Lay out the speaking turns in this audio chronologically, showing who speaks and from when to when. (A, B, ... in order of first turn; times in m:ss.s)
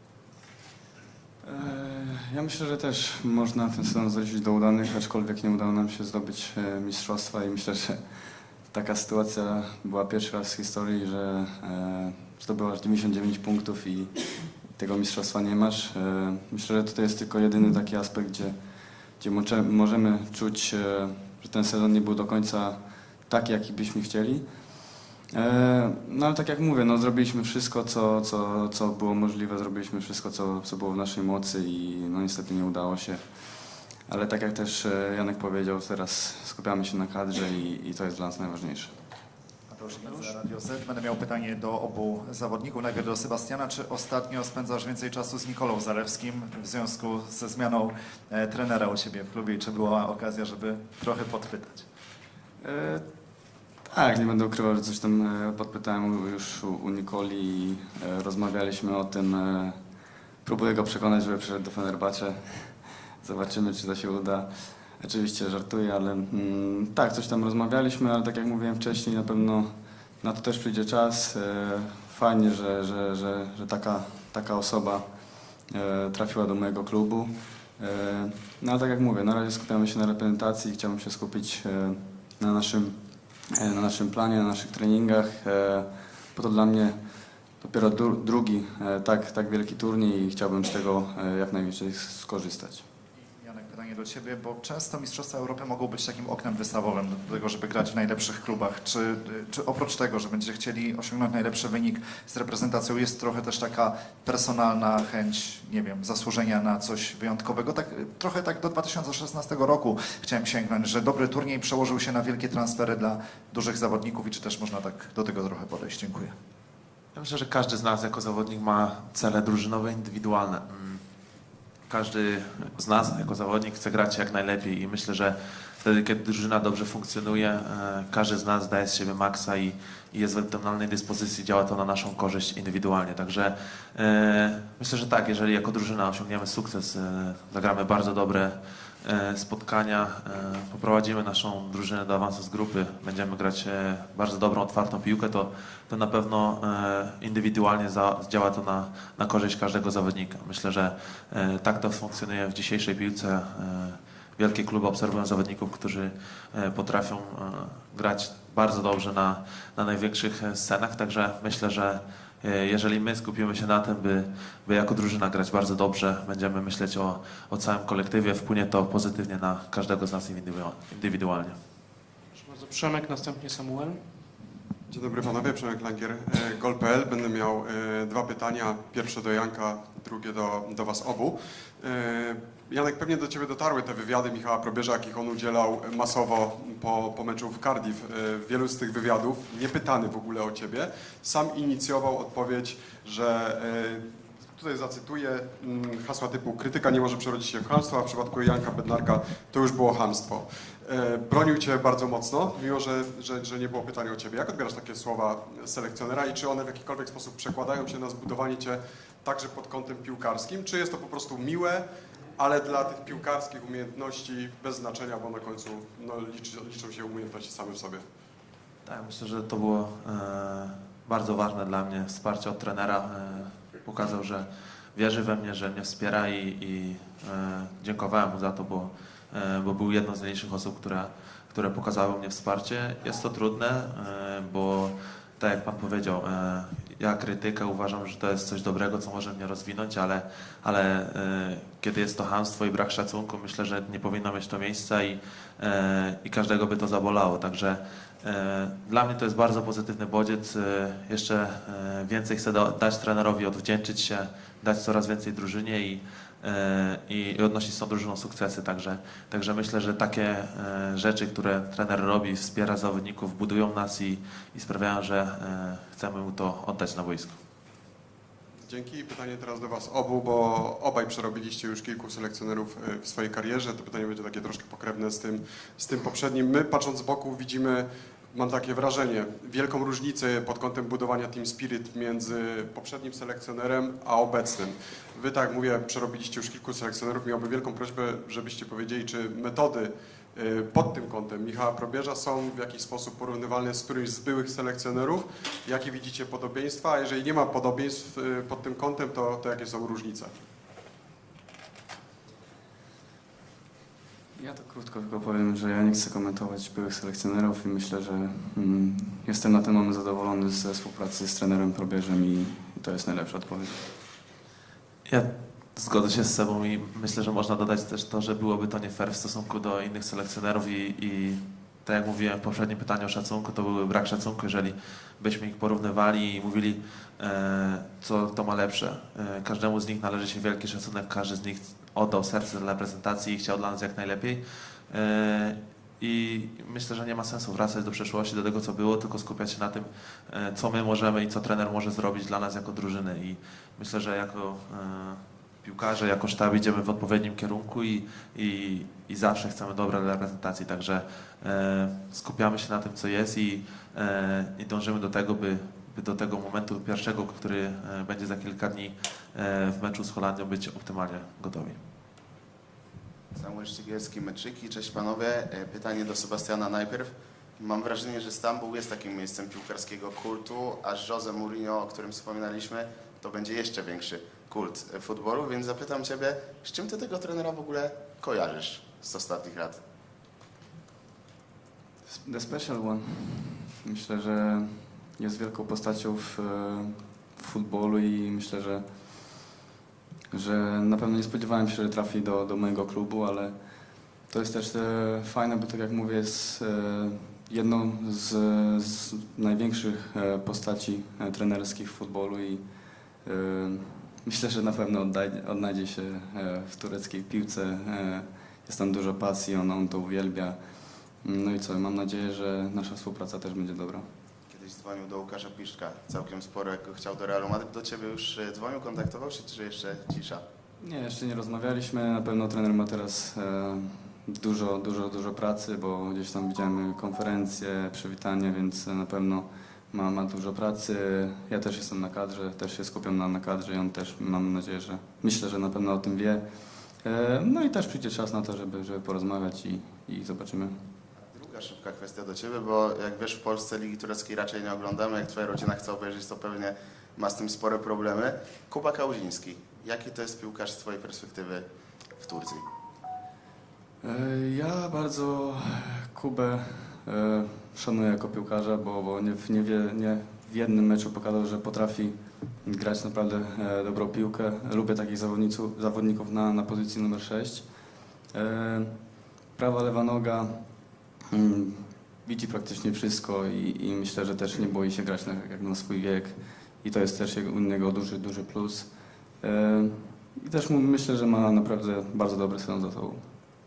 0:01.4-0:39.0 A
0:39.7-0:51.9 B
0:40.0-0:40.3 C
0:52.6-0:53.0 A
0:53.8-1:32.8 A
1:33.2-1:56.3 B
1:57.1-2:01.0 D
2:01.9-2:51.6 D
2:52.3-2:54.0 C
2:54.9-3:38.0 E
3:38.8-4:27.4 D
4:28.6-5:00.3 E
5:04.4-5:13.9 A
5:15.0-6:01.8 D
6:03.3-6:19.8 F
6:22.1-6:29.4 A
6:30.3-6:54.1 A
6:54.5-7:00.4 F
7:00.8-7:20.8 A
7:21.1-7:31.6 F
7:32.2-7:32.6 F
7:34.0-8:03.3 A